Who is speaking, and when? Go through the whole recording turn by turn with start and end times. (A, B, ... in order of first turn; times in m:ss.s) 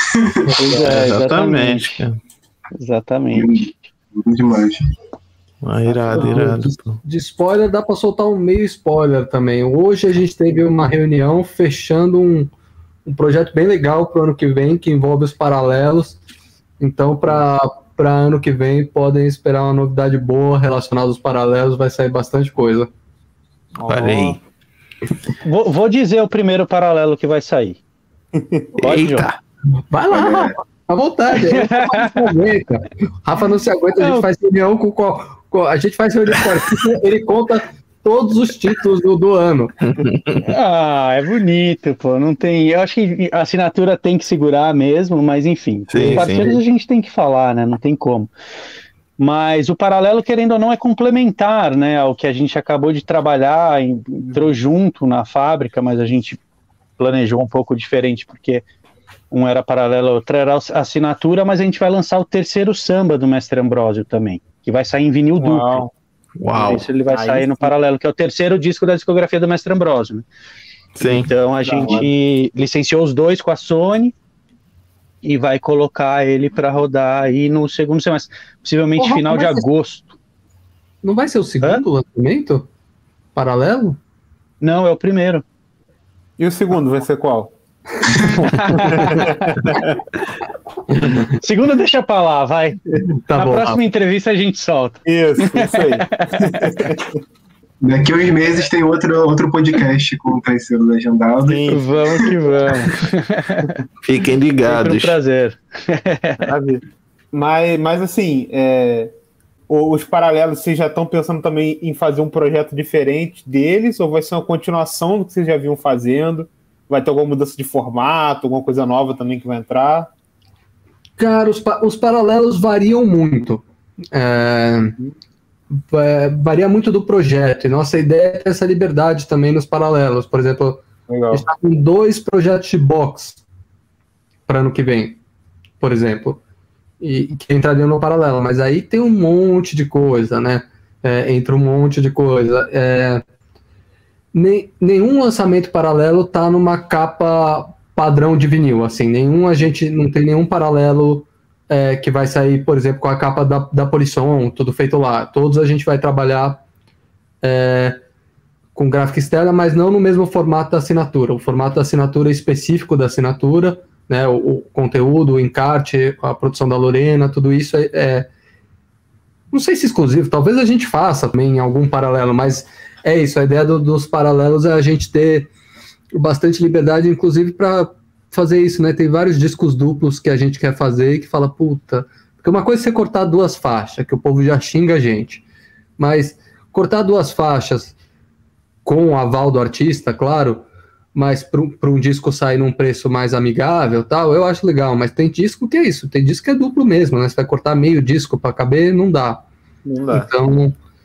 0:00.2-0:00.6 A
0:00.6-0:02.0 B
0:00.8-0:02.2 C
0:02.7-0:03.6 B
0:03.3-0:04.8 A
0:05.6-0:07.0 C
0:06.1-0:06.6 B
0:06.1-0:12.5 D
0:13.0-0:16.2 D
0:16.8-0:22.9 D
0:23.8-0:24.4 E
0:23.9-0:24.4 C
0:25.4-0:27.8 B
0:28.3-0:28.7 E
0:28.8-0:29.3 B
0:28.8-0:29.4 C
0:29.8-0:39.7 D
0:30.1-0:30.5 A
0:31.3-0:32.3 B
0:34.0-0:34.3 B
0:39.9-0:40.5 C
0:40.5-0:48.3 B
0:45.9-0:46.6 C
0:49.2-0:56.4 B
0:57.0-0:58.6 B
0:59.3-1:05.8 B
1:05.4-1:05.9 E
1:06.4-1:06.9 C
1:06.5-1:07.7 E
1:06.5-1:10.2 B
1:11.0-1:11.3 C
1:11.0-1:14.1 B
1:11.6-1:12.1 E
1:15.2-1:20.2 B
1:19.0-1:19.6 D
1:21.0-1:22.7 D
1:23.3-1:24.0 D
1:24.6-1:25.4 B
1:26.4-1:27.5 E
1:28.5-1:29.6 B
1:28.7-1:30.0 E
1:30.9-1:31.4 D
1:31.4-1:32.8 B
1:33.3-1:33.8 D
1:33.3-1:36.9 B
1:35.0-1:37.1 E
1:37.8-1:42.2 A
1:41.4-1:41.8 E
1:41.6-1:43.8 B
1:44.0-1:45.2 C
1:44.6-1:46.5 B
1:46.4-1:46.8 E
1:47.3-1:49.1 E
1:49.7-2:00.1 E
2:01.2-2:04.9 D
2:05.8-2:13.4 D
2:11.1-2:11.4 E
2:14.5-2:15.2 D
2:15.8-2:16.4 D
2:17.0-2:23.2 D
2:24.3-2:36.6 D
2:37.4-2:38.0 D
2:38.7-2:48.3 D
2:49.5-2:55.5 D
2:56.2-3:05.4 D
3:06.0-3:07.9 D
3:08.8-3:19.4 D
3:19.8-3:20.3 E
3:20.1-3:20.8 D